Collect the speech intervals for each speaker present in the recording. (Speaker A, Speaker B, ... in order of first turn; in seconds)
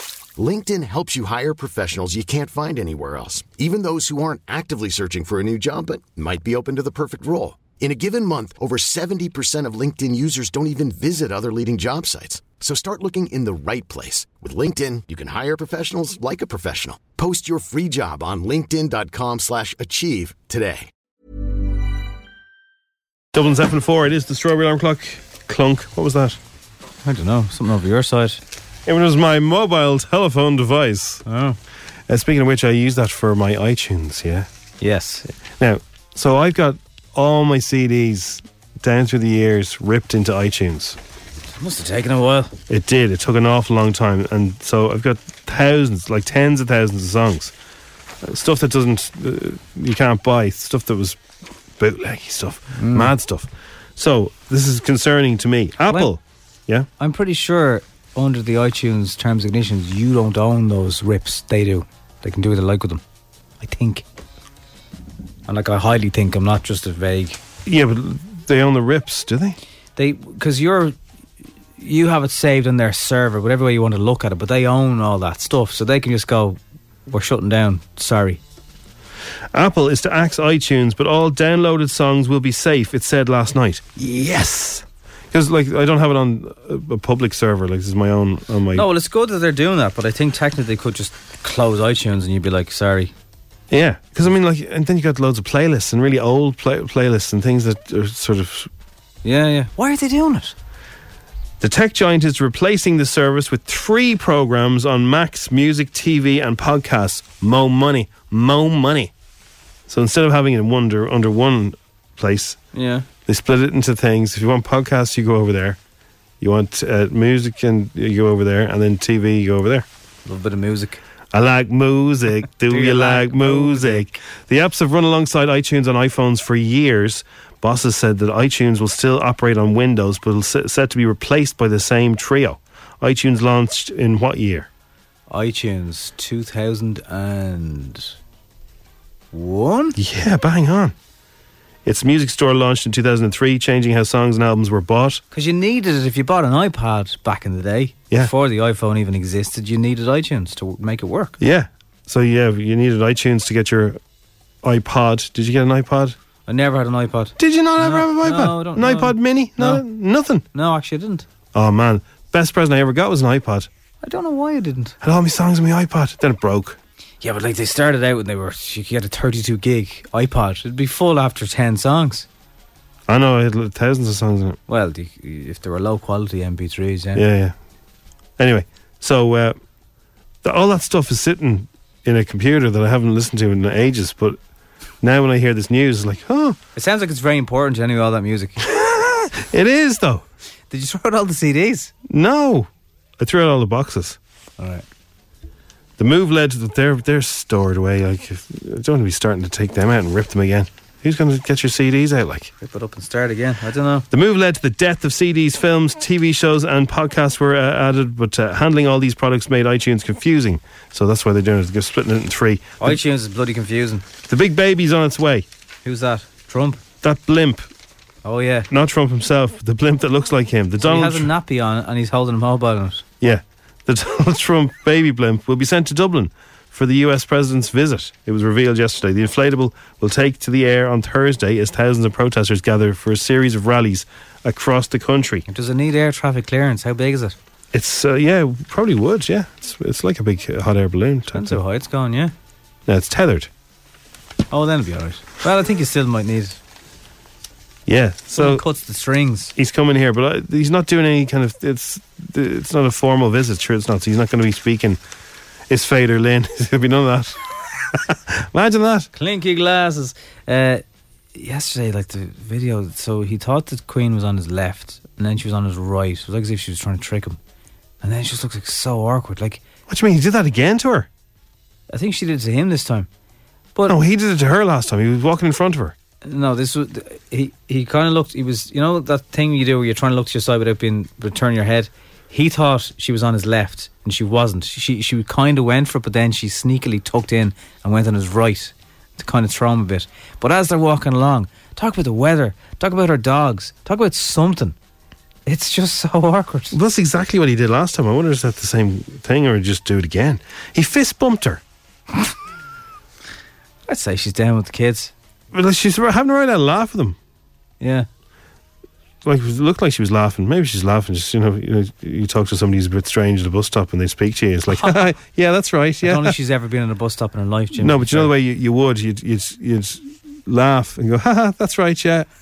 Speaker A: 0.4-20.9
Speaker B: 23.3-26.4, 28.9-31.2, 32.1-34.5, 35.6-41.0, 42.7-47.5, 48.2-51.2, 51.8-56.9, 67.7-69.6, 79.5-83.9, 85.3-88.9, 93.7-98.7, 101.6-109.1, 109.9-112.6, 113.3-115.8, 116.4-119.9, 121.3-134.7, 140.0-140.9, 141.8-145.2, 151.4-154.0, 154.6-156.2, 157.4-160.4, 161.5-163.7, 165.0-166.8, 173.1-174.6, 177.2-177.6, 178.4-179.6, 180.4-184.4, 185.0-186.6, 188.7-190.2, 192.1-194.2, 196.0-202.5, 204.1-213.0, 214.3-215.5, 217.0-217.7, 218.7-221.3, 223.2-235.4, 237.7-241.6, 242.9-243.5, 247.9-248.7, 249.6-255.0, 255.7-259.1, 269.9-271.1, 273.9-276.0, 296.7-301.6, 305.5-307.2, 309.2-316.4, 317.8-322.3
Speaker C: 27.0-28.4, 31.3-31.6, 34.8-35.3, 41.5-42.5, 52.8-53.1, 55.9-56.1, 57.0-63.0, 63.6-64.0, 65.5-67.4, 70.0-71.0, 71.8-78.4, 84.0-84.8, 88.7-93.1, 99.2-100.5, 112.8-113.1, 120.3-121.0, 122.7-124.2, 135.3-138.2, 139.3-140.0, 145.3-151.4, 156.5-159.8, 160.5-161.3, 164.0-165.0, 167.2-172.3, 174.7-177.2, 186.8-188.6, 190.7-191.9, 194.6-194.8, 202.6-204.1, 212.8-214.0, 215.8-216.8, 218.2-218.7, 220.8-223.0, 235.5-237.3, 241.3-242.3, 244.5-246.6, 248.4-249.5, 259.1-260.8, 261.3-267.4, 268.0-269.6, 271.9-273.1, 276.2-294.8, 295.5-296.8, 303.9-305.1, 307.8-308.1, 314.7-315.1, 316.0-318.3